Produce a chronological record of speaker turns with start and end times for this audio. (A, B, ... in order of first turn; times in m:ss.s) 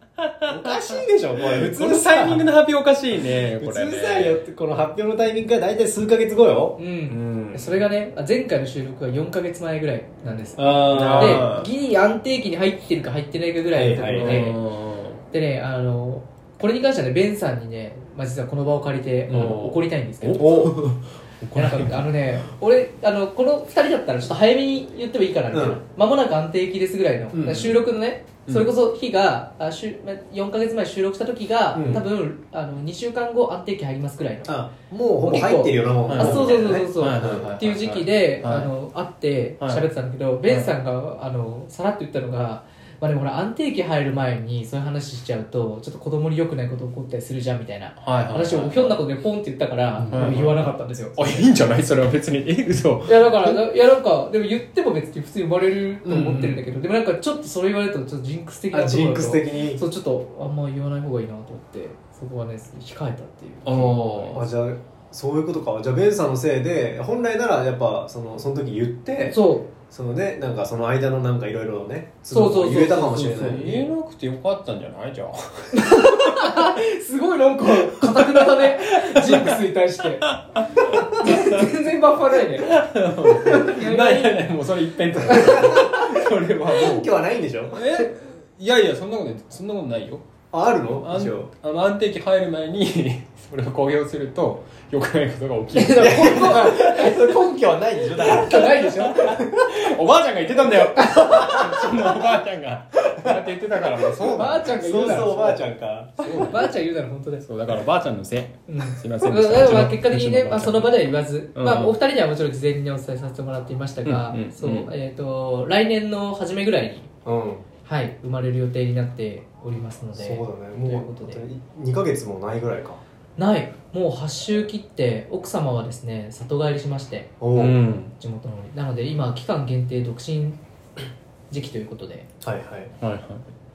0:00.4-0:04.4 A
0:00.5-0:02.5 B
0:03.2-0:06.8 B
0:06.8-0:14.6 C
0:07.1-0:07.8 A
0:10.6-0:11.5 B
0:10.9-0:11.7 A
0:13.7-0:14.5 B
0:14.1-0:15.2 A
0:15.3-0:20.8 C
0:19.3-0:19.8 A
0:19.3-0:19.6 B
0:20.3-0:21.0 B
0:20.4-0:22.1 A
0:21.6-0:34.6 C
0:25.5-0:25.8 B
0:27.3-0:27.8 B
0:28.5-0:28.7 A
0:31.7-0:32.1 B
0:34.4-0:37.5 B
0:35.2-0:51.3 C
0:36.1-0:38.7 A
0:39.6-0:39.9 A
0:40.5-0:40.7 A
0:48.0-0:49.0 A
0:50.0-0:50.4 B
0:50.1-0:50.6 A
0:51.2-0:53.6 A
0:53.1-1:04.4 C
0:56.0-0:56.6 B
0:58.7-0:59.8 B
1:03.6-1:04.4 A
1:04.3-1:13.9 B
1:09.3-1:09.7 C
1:12.3-1:13.8 C
1:13.2-1:16.5 A
1:15.7-1:24.5 C
1:18.0-1:19.6 A
1:20.2-1:21.6 A
1:22.6-1:27.1 A
1:25.2-1:28.1 B
1:27.7-1:30.2 A
1:30.5-1:31.5 B
1:31.0-1:37.4 A
1:35.8-1:39.9 B
1:36.1-1:37.1 C
1:38.2-1:39.4 C
1:38.2-1:44.7 A
1:41.1-1:42.3 B
1:43.2-1:46.7 B
1:44.3-1:45.7 C
1:46.2-1:46.7 A
1:46.4-1:47.5 C
1:47.4-1:52.0 A
1:48.7-1:57.1 C
1:54.0-1:54.9 A
1:57.2-1:57.7 B
1:57.8-2:01.4 C
2:00.2-2:03.0 B
2:03.4-2:07.3 C
2:07.4-2:07.8 B
2:07.5-2:08.1 A
2:08.2-2:10.6 C
2:11.5-2:12.3 C
2:12.4-2:12.9 B
2:13.0-2:13.5 A